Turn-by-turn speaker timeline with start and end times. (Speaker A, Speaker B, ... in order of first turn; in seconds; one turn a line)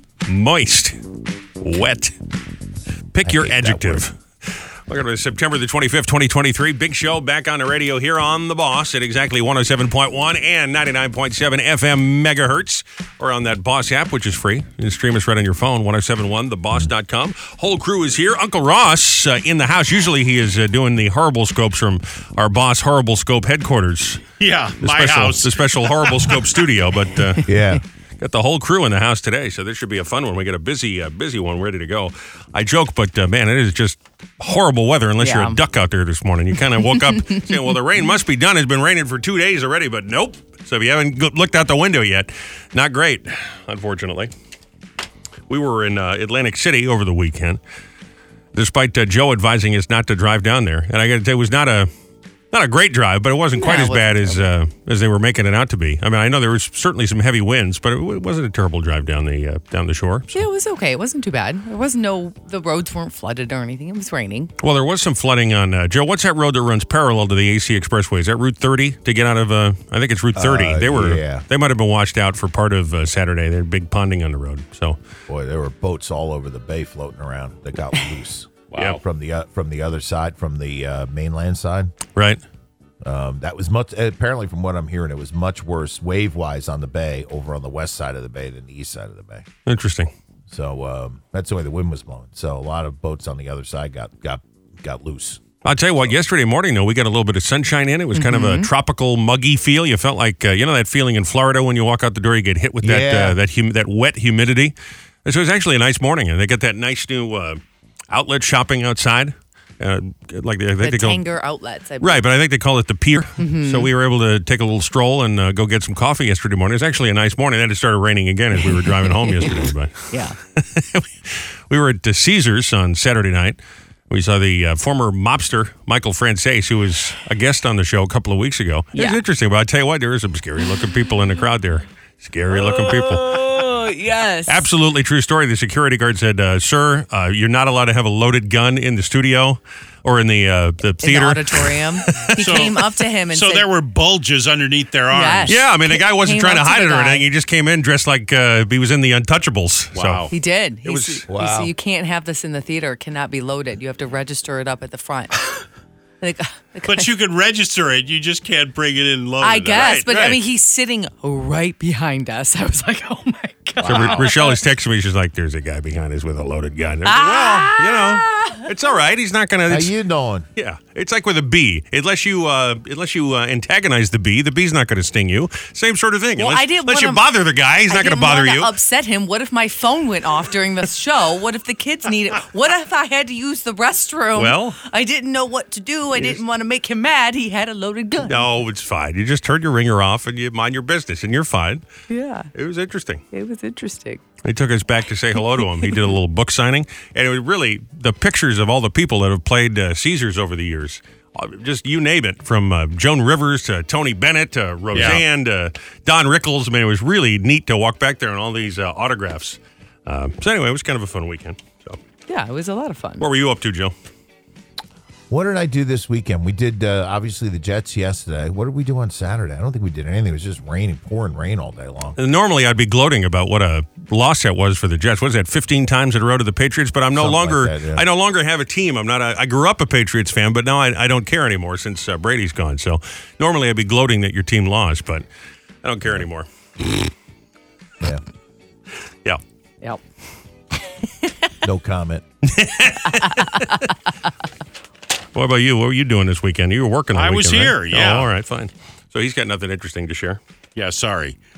Speaker A: 0.3-0.9
Speaker A: 1.6-2.1
Speaker A: 3.1-4.1
Speaker B: 3.2-4.0
Speaker A: 4.9-24.3
Speaker C: 24.4-26.4
Speaker A: 24.8-27.5
Speaker B: 27.4-27.8
Speaker A: 28.2-44.3
Speaker D: 35.2-35.6
Speaker D: 37.2-37.5
Speaker A: 45.5-47.6
Speaker A: 48.5-51.9
Speaker A: 52.5-60.3
Speaker D: 53.6-54.4
Speaker D: 60.3-64.5
Speaker A: 64.6-75.0
Speaker B: 70.3-71.4
Speaker B: 75.3-82.0
Speaker A: 82.2-82.4
Speaker B: 83.0-89.5
Speaker A: 89.7-90.1
Speaker B: 90.5-95.4
Speaker A: 95.6-104.7
Speaker D: 98.2-98.7
Speaker B: 102.8-103.4
Speaker A: 105.2-111.2
Speaker D: 110.8-112.2
Speaker A: 112.0-123.6
Speaker D: 113.4-113.9
Speaker D: 118.6-119.6
Speaker D: 120.1-120.4
Speaker A: 124.1-133.4
Speaker D: 128.9-129.2
Speaker D: 132.6-134.7
Speaker A: 134.5-142.7
Speaker D: 141.0-143.7
Speaker C: 142.4-145.6
Speaker D: 145.1-147.2
Speaker A: 145.5-150.3
Speaker C: 149.9-150.3
Speaker D: 150.3-155.5
Speaker A: 150.8-151.2
Speaker B: 151.3-151.7
Speaker D: 156.2-157.1
Speaker C: 156.9-160.2
Speaker D: 159.4-164.6
Speaker A: 159.8-160.4
Speaker C: 163.8-164.2
Speaker A: 163.8-169.9
Speaker D: 167.1-168.6
Speaker B: 169.7-170.5
Speaker A: 170.6-178.7
Speaker D: 176.4-177.2
Speaker D: 177.9-188.5
Speaker A: 184.3-184.8
Speaker A: 188.2-191.8
Speaker D: 192.1-192.5
Speaker A: 192.5-193.2
Speaker D: 193.3-194.2
Speaker A: 194.4-212.0
Speaker D: 195.6-196.1
Speaker C: 204.9-205.2
Speaker D: 212.3-213.3
Speaker A: 213.2-213.9
Speaker B: 215.3-222.2
Speaker A: 222.2-235.2
Speaker B: 227.2-228.1
Speaker A: 235.8-236.5
Speaker B: 241.6-242.2
Speaker A: 242.5-243.7
Speaker D: 243.1-243.8
Speaker A: 245.3-250.4
Speaker C: 247.1-248.3
Speaker C: 250.8-251.4